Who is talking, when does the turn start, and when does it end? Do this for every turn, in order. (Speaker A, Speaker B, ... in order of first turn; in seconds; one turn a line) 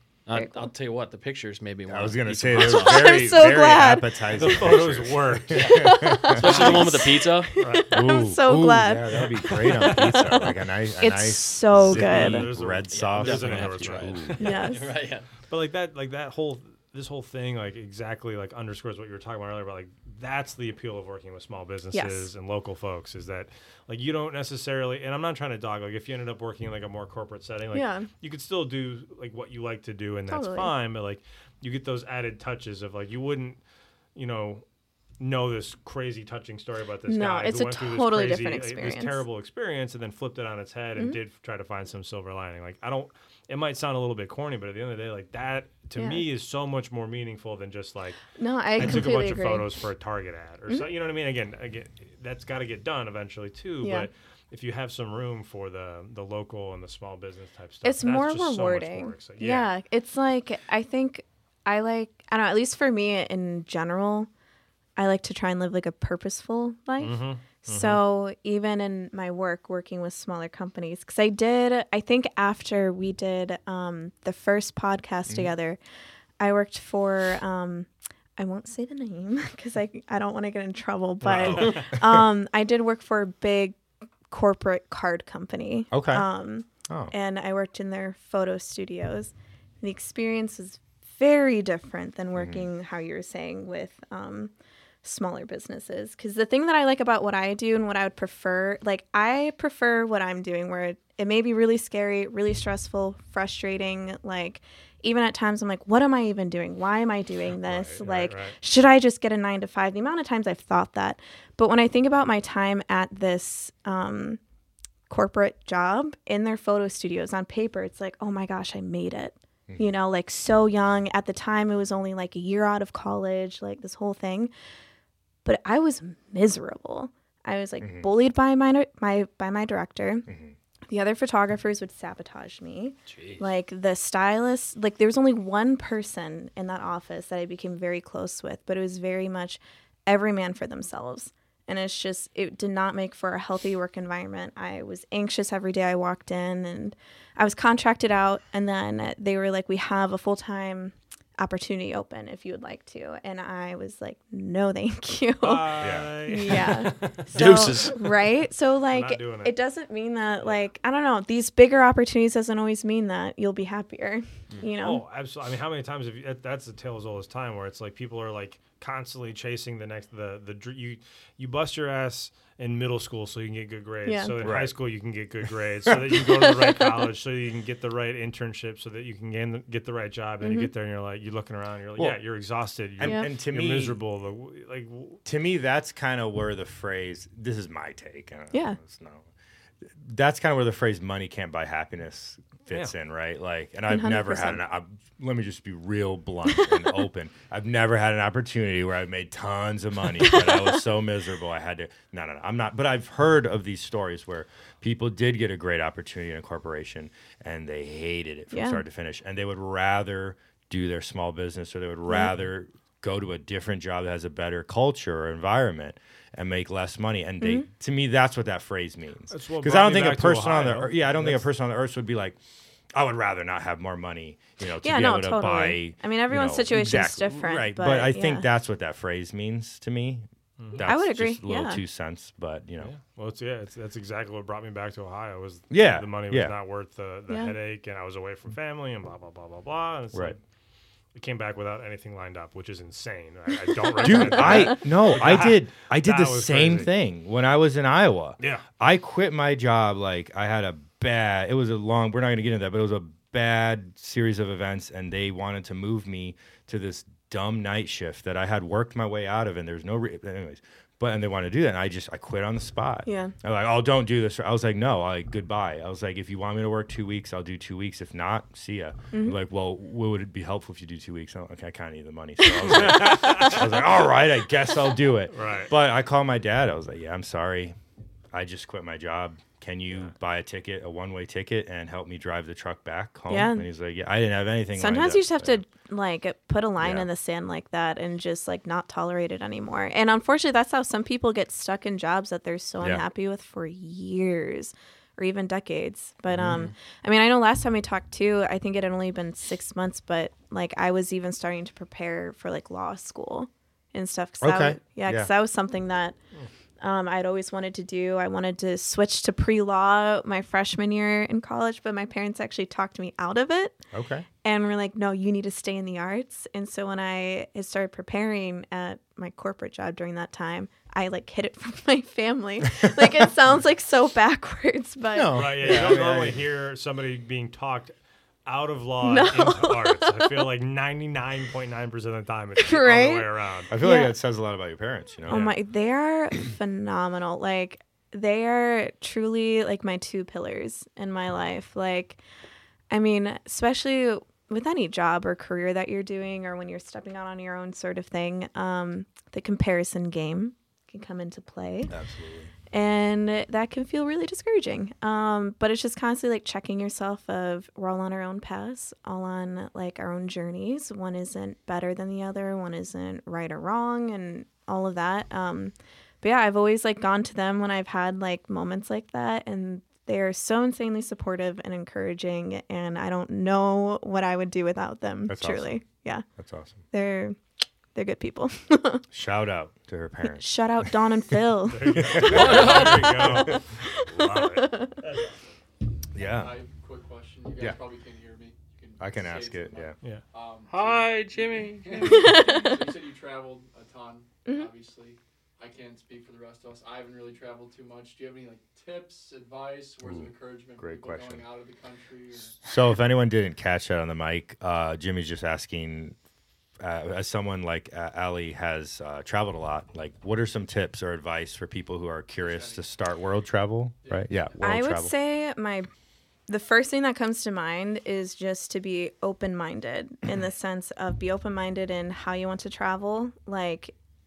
Speaker A: 0.3-3.2
Speaker B: 0.3-0.7
Speaker C: 1.9-6.8
Speaker B: 2.6-4.6
Speaker D: 4.3-5.7
Speaker A: 5.5-7.5
Speaker B: 5.6-9.7
Speaker D: 7.6-7.9
Speaker C: 7.9-14.5
Speaker D: 9.2-10.5
Speaker B: 11.0-12.5
Speaker D: 11.9-14.6
Speaker A: 12.9-15.3
Speaker B: 14.4-14.9
Speaker D: 15.5-33.6
Speaker B: 21.9-22.3
Speaker B: 27.7-28.1
Speaker B: 30.3-30.7
Speaker D: 34.1-34.6
Speaker D: 35.2-48.2
Speaker B: 37.1-39.2
Speaker B: 46.0-46.2
Speaker B: 48.4-49.7
Speaker D: 48.8-59.7
Speaker B: 53.8-54.1
Speaker B: 57.8-64.3
Speaker B: 65.0-75.8
Speaker D: 67.0-68.0
Speaker C: 75.3-75.5
Speaker B: 76.4-83.8
Speaker D: 81.2-81.9
Speaker C: 81.4-82.2
Speaker B: 84.3-114.4
Speaker C: 85.9-86.3
Speaker C: 86.9-87.1
Speaker C: 92.3-92.7
Speaker D: 107.6-108.6
Speaker B: 115.1-124.5
Speaker B: 125.5-130.3
Speaker C: 127.8-128.1
Speaker C: 130.3-130.6
Speaker B: 130.9-165.0
Speaker A: 133.1-133.5
Speaker D: 155.4-157.9
Speaker C: 155.8-156.1
Speaker A: 157.3-158.2
Speaker D: 158.9-159.6
Speaker D: 164.8-185.2
Speaker B: 174.1-174.4
Speaker C: 174.4-174.8
Speaker C: 175.9-176.3
Speaker B: 180.4-180.7
Speaker C: 183.0-184.0
Speaker B: 183.0-183.3
Speaker C: 185.2-189.3
Speaker B: 188.5-188.8
Speaker C: 189.9-222.4
Speaker B: 193.9-194.6
Speaker B: 196.5-197.0
Speaker B: 200.3-200.8
Speaker B: 208.5-208.8
Speaker B: 217.4-217.7
Speaker D: 219.3-221.4
Speaker C: 222.9-232.9
Speaker B: 224.8-228.5
Speaker D: 230.6-230.9
Speaker B: 230.8-231.8
Speaker D: 232.8-240.4
Speaker C: 235.7-236.5
Speaker D: 241.2-246.9
Speaker C: 244.0-277.8
Speaker D: 248.4-248.7
Speaker B: 263.1-263.3
Speaker D: 272.7-273.6
Speaker D: 275.3-275.7
Speaker C: 278.3-285.6
Speaker B: 283.3-283.7
Speaker B: 284.8-306.2
Speaker C: 286.8-287.1
Speaker C: 296.3-296.7
Speaker C: 304.4-305.3
Speaker B: 306.8-313.8
Speaker C: 313.9-314.3
Speaker B: 314.4-325.9
Speaker C: 322.7-323.2
Speaker C: 325.1-326.4
Speaker D: 325.3-333.7
Speaker B: 329.0-330.2
Speaker B: 332.6-333.3
Speaker C: 333.7-335.5
Speaker B: 333.8-334.1
Speaker B: 335.3-342.2
Speaker D: 335.3-335.5
Speaker B: 342.9-351.9
Speaker C: 351.9-352.5
Speaker B: 352.7-376.2
Speaker C: 375.3-375.8
Speaker C: 376.4-376.8
Speaker B: 376.9-377.4
Speaker B: 377.9-379.1
Speaker C: 379.1-380.9
Speaker B: 380.3-384.9
Speaker D: 381.7-385.2
Speaker C: 381.9-383.5
Speaker A: 382.5-383.0
Speaker C: 386.2-386.6
Speaker E: 386.2-402.7
Speaker C: 389.0-389.9
Speaker A: 390.7-392.6
Speaker B: 392.0-393.0
Speaker C: 400.0-401.5
Speaker C: 402.6-406.2
Speaker C: 406.8-415.1
Speaker E: 412.4-412.9
Speaker B: 414.6-415.9
Speaker B: 416.5-423.9